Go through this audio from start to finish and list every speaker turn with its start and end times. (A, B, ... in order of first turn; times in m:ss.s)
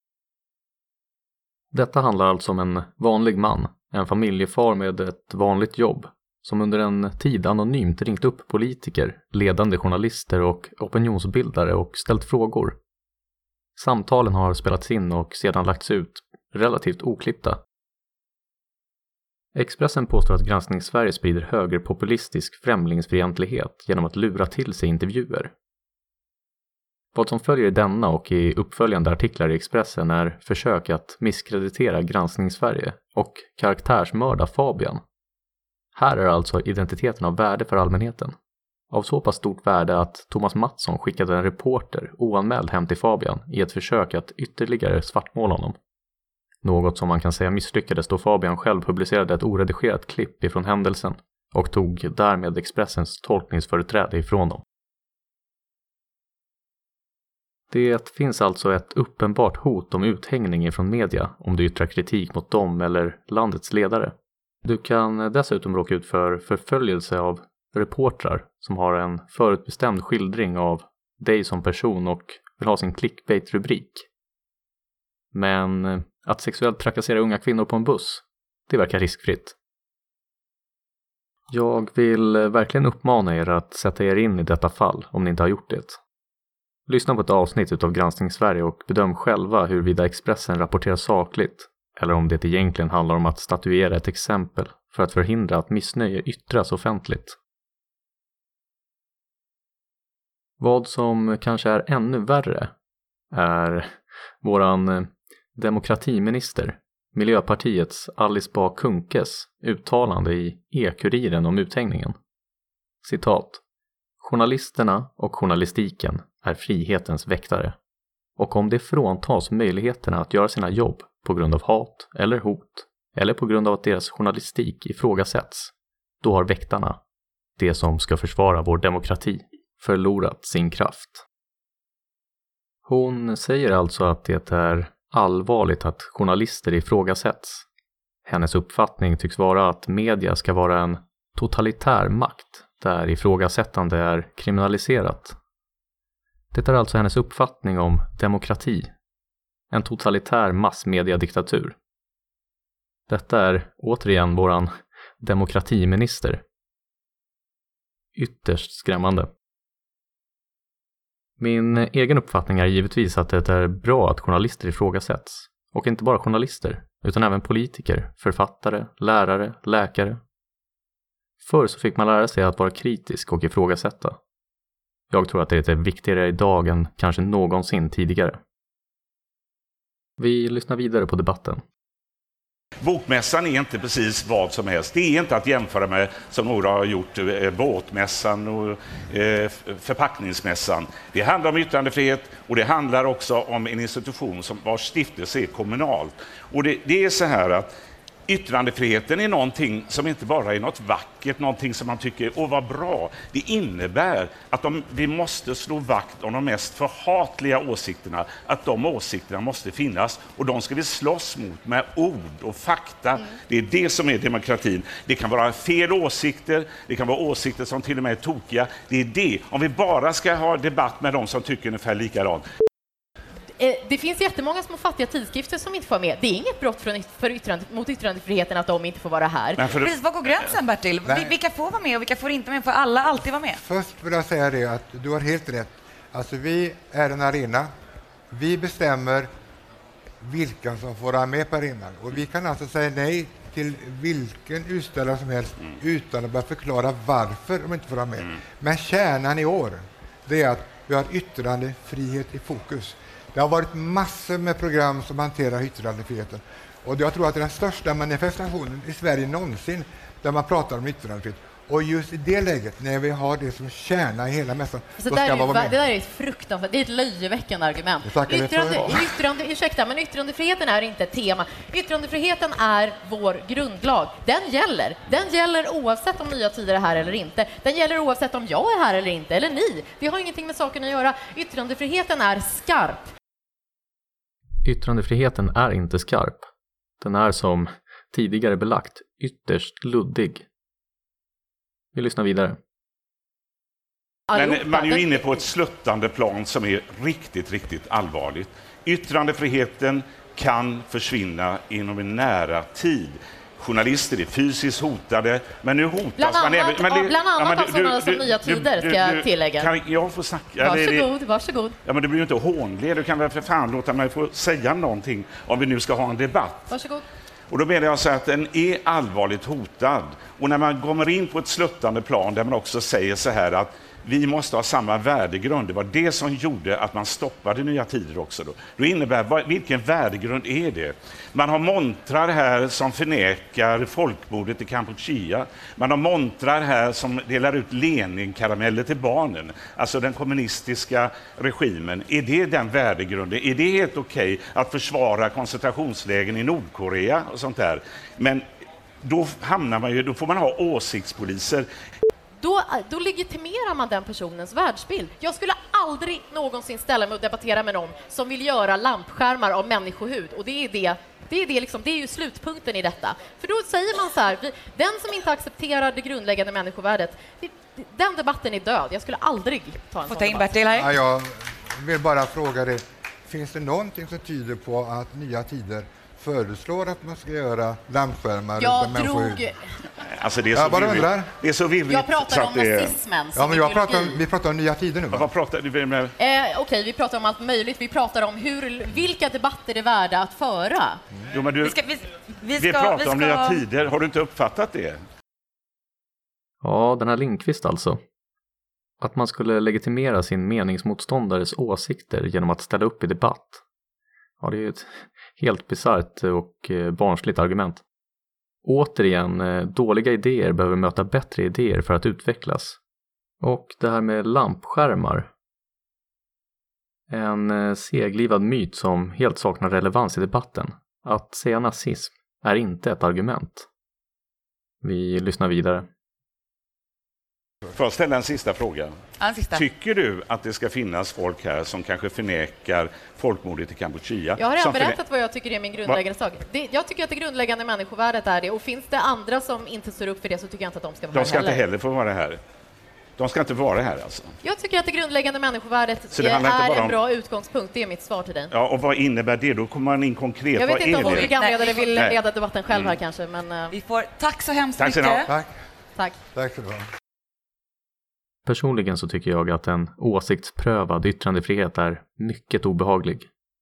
0:01.7-0:12.8 A
0:13.8-0:17.6 A
0:19.5-0:25.5 A
0:27.1-0:35.0 A
0:35.9-0:38.3 A
0:38.9-0:45.8 A
0:46.6-0:54.6 A
0:57.7-1:14.1 A
1:15.3-1:19.5 A
1:21.5-1:26.0 A
1:26.9-1:37.4 A
1:40.6-1:42.7 A
1:43.3-1:52.2 A
1:53.0-1:53.6 A
1:54.2-1:57.8 A
1:58.4-2:07.0 A
2:07.6-2:11.2 A
2:12.8-2:17.6 A
2:18.2-2:25.4 A
2:26.5-2:28.9 A
2:29.7-2:31.8 A
2:33.1-2:36.4 A
2:38.1-2:39.3 A
2:41.4-2:50.2 A
2:51.4-2:54.2 A
2:55.1-2:58.4 A
3:00.2-3:01.6 A
3:02.8-3:17.7 B
3:18.3-3:42.4 B
3:43.6-3:49.6 C
3:49.6-3:49.9 B
3:49.8-3:53.6 D
3:51.0-3:51.4 E
3:53.6-3:57.7 E
3:58.3-3:59.3 E
4:00.2-4:25.8 E
4:25.0-4:43.1 C
4:28.0-4:29.1 E
4:44.6-4:46.5 A
4:47.0-4:50.4 A
4:51.9-4:52.6 A
4:54.3-4:55.4 C
4:54.3-5:11.1 B
5:06.2-5:09.7 C
5:10.6-5:11.8 C
5:11.8-5:16.7 B
5:16.7-5:17.0 C
5:17.5-5:48.4 B
5:49.0-5:51.6 B
5:52.4-6:10.6 C
6:10.1-6:10.9 D
6:10.7-6:19.5 E
6:18.6-6:19.6 C
6:20.0-6:23.0 B
6:20.5-6:21.3 E
6:21.9-6:24.2 C
6:23.3-6:25.3 E
6:25.1-6:26.1 B
6:26.2-6:31.0 C
6:31.3-6:31.8 B
6:31.6-6:33.6 D
6:32.6-6:35.0 B
6:36.6-6:38.0 A
6:39.0-6:43.6 A
6:44.4-6:47.8 A
6:48.6-6:52.8 A
6:53.4-6:55.3 A
6:57.1-7:03.7 A
7:04.8-7:05.9 A
7:07.7-7:09.0 B
7:09.2-7:09.6 D
7:09.5-7:15.0 B
7:14.4-7:21.6 C
7:21.1-7:22.4 B
7:23.2-7:24.3 B
7:24.4-7:28.5 C
7:26.1-7:27.0 B
7:28.5-7:31.3 B
7:30.6-7:33.7 C
7:31.0-7:32.0 D
7:33.7-7:35.3 D
7:34.8-7:35.2 B
7:35.2-7:35.5 E
7:36.3-7:36.9 E
7:38.4-7:43.3 A